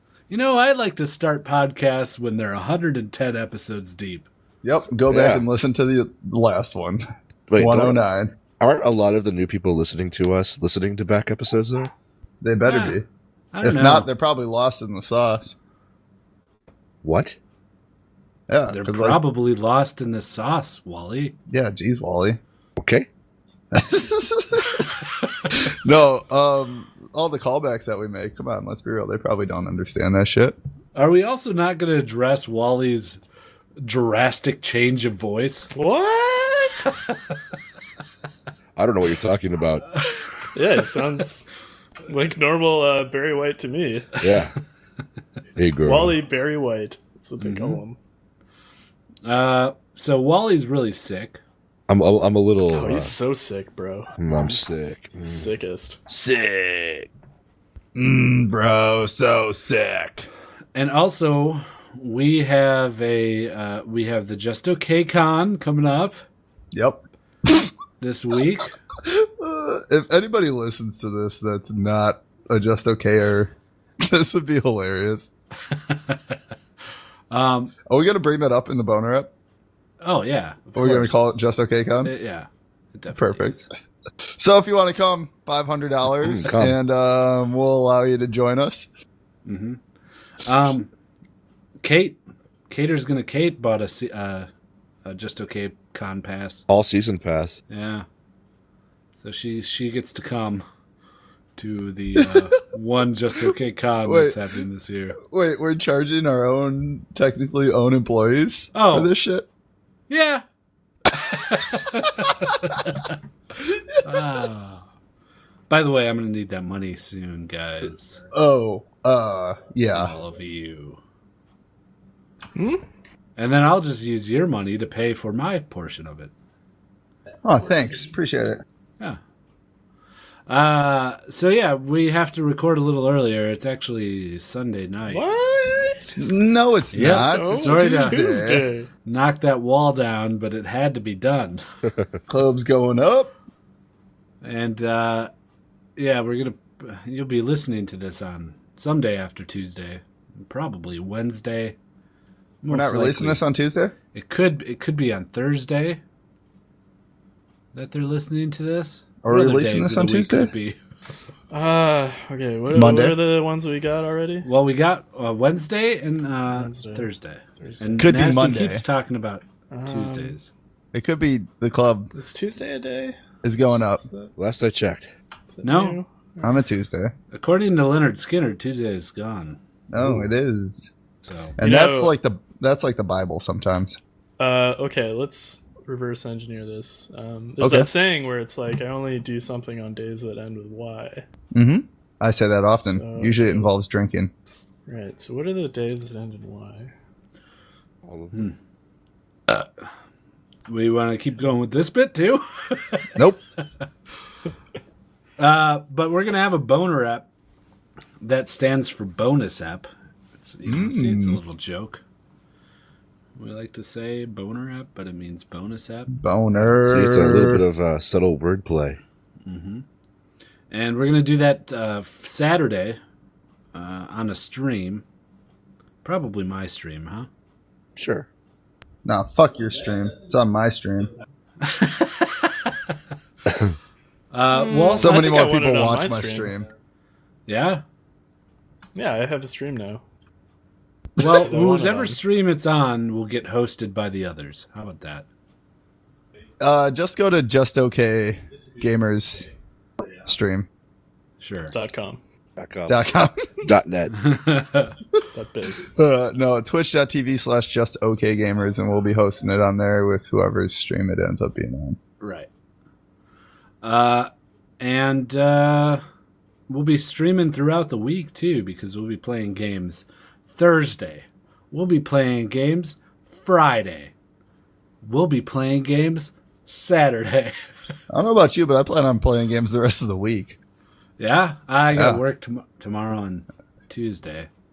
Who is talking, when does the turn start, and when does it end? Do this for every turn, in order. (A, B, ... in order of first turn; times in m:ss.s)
0:00.3-0:04.3 A
0:04.6-0:07.0 B
0:05.1-0:05.4 C
0:07.5-0:08.0 C
0:07.6-0:08.3 B
0:08.6-0:11.9 C
0:12.4-0:13.1 B
0:12.6-0:13.0 A
0:13.5-0:14.1 A
0:13.6-0:15.6 B
0:17.0-0:17.4 C
0:18.5-0:19.2 B
0:18.7-0:21.4 A
0:21.5-0:22.4 B
0:22.8-0:23.1 C
0:23.7-0:24.9 B
0:25.5-0:30.6 B
0:31.0-0:33.2 A
0:33.8-0:35.7 A
0:35.7-0:36.9 D
0:38.8-0:39.8 C
0:40.5-0:41.5 D
0:42.1-0:44.2 D
0:44.2-0:44.5 C
0:45.6-0:46.2 C
0:45.8-0:48.0 D
0:47.4-0:47.8 A
0:49.2-0:51.4 A
0:51.9-0:53.1 C
0:52.7-0:56.0 D
0:54.2-0:55.5 C
0:56.1-0:57.1 C
0:58.0-1:00.3 B
1:00.7-1:06.3 A
1:06.7-1:07.7 B
1:08.0-1:08.8 A
1:09.0-1:15.3 B
1:15.9-1:16.2 A
1:17.3-1:17.7 A
1:17.9-1:19.3 B
1:20.0-1:21.2 A
1:20.8-1:22.1 B
1:22.0-1:23.6 A
1:23.1-1:23.7 B
1:24.4-1:28.9 B
1:26.2-1:26.8 C
1:29.5-1:29.8 A
1:30.4-1:30.9 A
1:31.8-1:34.5 A
1:35.0-1:36.6 A
1:36.7-1:37.6 C
1:37.7-1:38.1 A
1:39.2-1:40.6 A
1:41.6-1:45.2 A
1:42.2-1:42.4 B
1:44.0-1:44.4 B
1:45.2-1:49.5 B
1:48.7-1:49.1 A
1:50.1-1:50.4 A
1:51.2-1:53.2 A
1:53.6-1:54.0 B
1:54.0-1:54.8 A
1:55.7-1:58.2 A
1:58.3-2:00.1 B
1:59.9-2:01.0 A
2:02.6-2:02.8 D
2:03.4-2:06.3 A
2:07.4-2:08.6 B
2:10.5-2:15.2 A
2:15.1-2:16.1 D
2:16.2-2:18.6 B
2:16.9-2:18.2 A
2:17.3-2:18.9 D
2:19.0-2:21.6 A
2:22.3-2:23.3 B
2:24.4-2:25.3 A
2:26.0-2:31.8 A
2:32.6-2:33.4 A
2:32.7-2:34.0 B
2:34.1-2:36.0 A
2:37.8-2:40.8 A
2:39.2-2:40.5 B
2:41.5-2:44.5 D
2:42.7-2:43.2 B
2:44.4-2:50.5 A
2:46.5-2:47.1 D
2:47.6-2:48.1 D
2:48.0-2:48.8 B
2:49.7-2:50.3 D
2:50.9-2:52.1 B
2:52.1-2:53.2 D
2:53.4-2:54.0 B
2:54.4-2:55.1 C
2:55.6-2:56.5 D
2:55.6-2:56.0 A
2:56.4-2:57.1 B
2:57.3-2:59.6 A
2:59.9-3:00.9 B
3:01.2-3:01.6 A
3:01.6-3:04.0 B
3:01.6-3:02.2 D
3:04.4-3:11.2 D
3:07.6-3:07.9 B
3:11.5-3:14.3 B
3:12.8-3:13.7 D
3:14.9-3:16.9 D
3:18.1-3:18.4 C
3:20.7-3:23.1 A
3:25.4-3:27.3 A
3:28.2-3:32.0 A
3:30.7-3:31.4 B
3:33.4-3:36.1 A
3:36.1-3:37.6 B
3:36.6-3:39.0 C
3:39.5-3:39.8 A
3:40.7-3:43.0 A
3:43.7-3:45.0 A
3:46.0-3:47.3 A
3:48.0-3:48.3 C
3:49.0-3:51.1 B
3:51.6-3:52.7 A
3:53.5-3:53.7 C
3:54.3-3:55.3 A
3:54.5-3:56.5 D
3:54.9-3:56.7 B
3:57.5-3:57.8 A
3:59.0-4:00.0 D
4:01.2-4:05.3 A
4:01.2-4:02.2 D
4:06.6-4:09.5 B
4:10.2-4:10.7 B
4:11.4-4:11.7 A
4:11.7-4:12.2 D
4:12.6-4:13.0 C
4:12.9-4:13.7 B
4:13.6-4:14.1 C
4:14.2-4:14.9 A
4:15.3-4:15.9 D
4:16.0-4:22.0 B
4:22.2-4:22.5 A
4:23.8-4:26.0 A
4:26.7-4:34.1 A
4:35.0-4:37.6 A
4:38.1-4:40.6 B
4:41.2-4:44.5 A
4:41.9-4:42.2 B